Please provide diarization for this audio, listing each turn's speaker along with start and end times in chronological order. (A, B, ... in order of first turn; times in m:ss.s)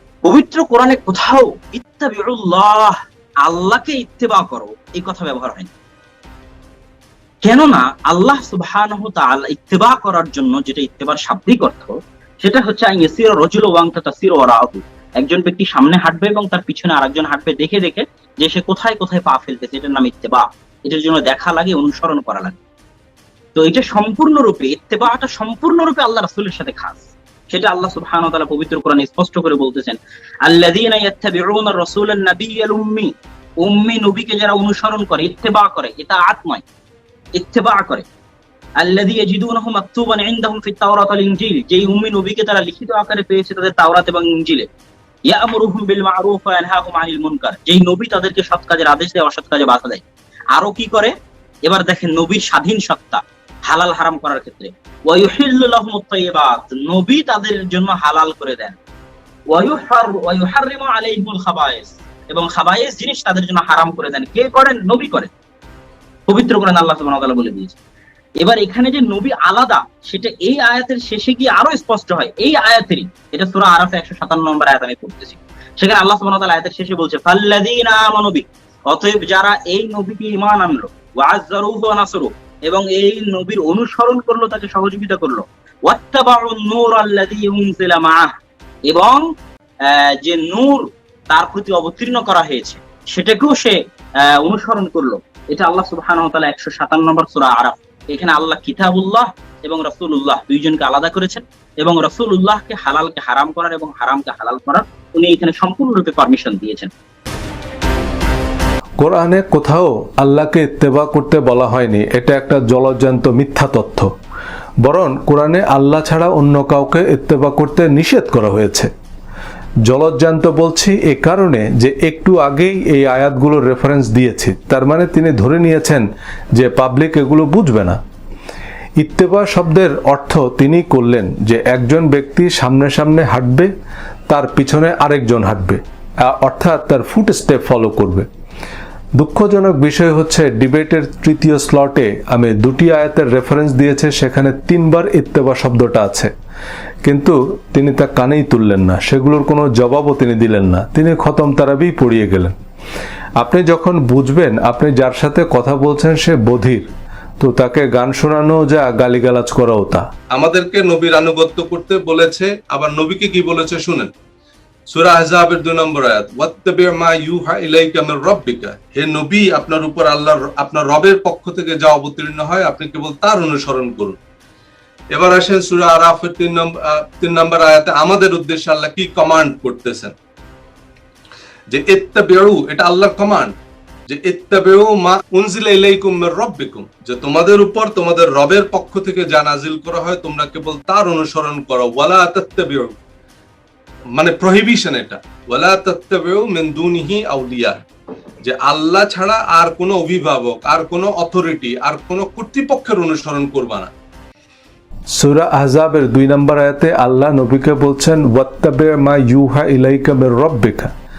0:00.2-0:05.7 A
0:07.4-0:22.6 A
0:23.6-0:33.1 A
0:33.6-0:36.6 A
0:37.4-0:38.1 A
0:38.8-0:44.7 A
0:45.3-0:51.1 A
0:51.6-0:58.8 A
0:59.5-1:05.3 A
1:06.3-1:07.8 A
1:08.4-1:28.3 A
1:28.9-1:29.2 A
1:29.8-1:33.8 A
1:34.3-1:46.9 A
1:49.0-1:54.1 B
1:54.8-1:58.9 B
1:59.8-2:08.0 B
2:09.0-2:13.7 B
2:14.3-2:18.3 B
2:19.2-2:26.3 B
2:27.0-2:32.6 B
2:33.4-2:43.9 B
2:40.4-2:44.1 C
2:44.9-2:54.2 C
2:45.1-2:51.8 B
2:52.5-2:53.6 B
2:55.1-3:00.1 C
2:55.3-2:55.8 B
2:58.1-2:58.4 B
2:59.4-3:00.1 B
3:01.7-3:03.5 C
3:01.9-3:03.3 B
3:04.1-3:12.9 C
3:04.1-3:12.7 B
3:14.2-3:17.8 C
3:14.2-3:17.6 B
3:18.5-3:20.1 B
3:18.5-3:23.9 C
3:25.1-3:30.9 B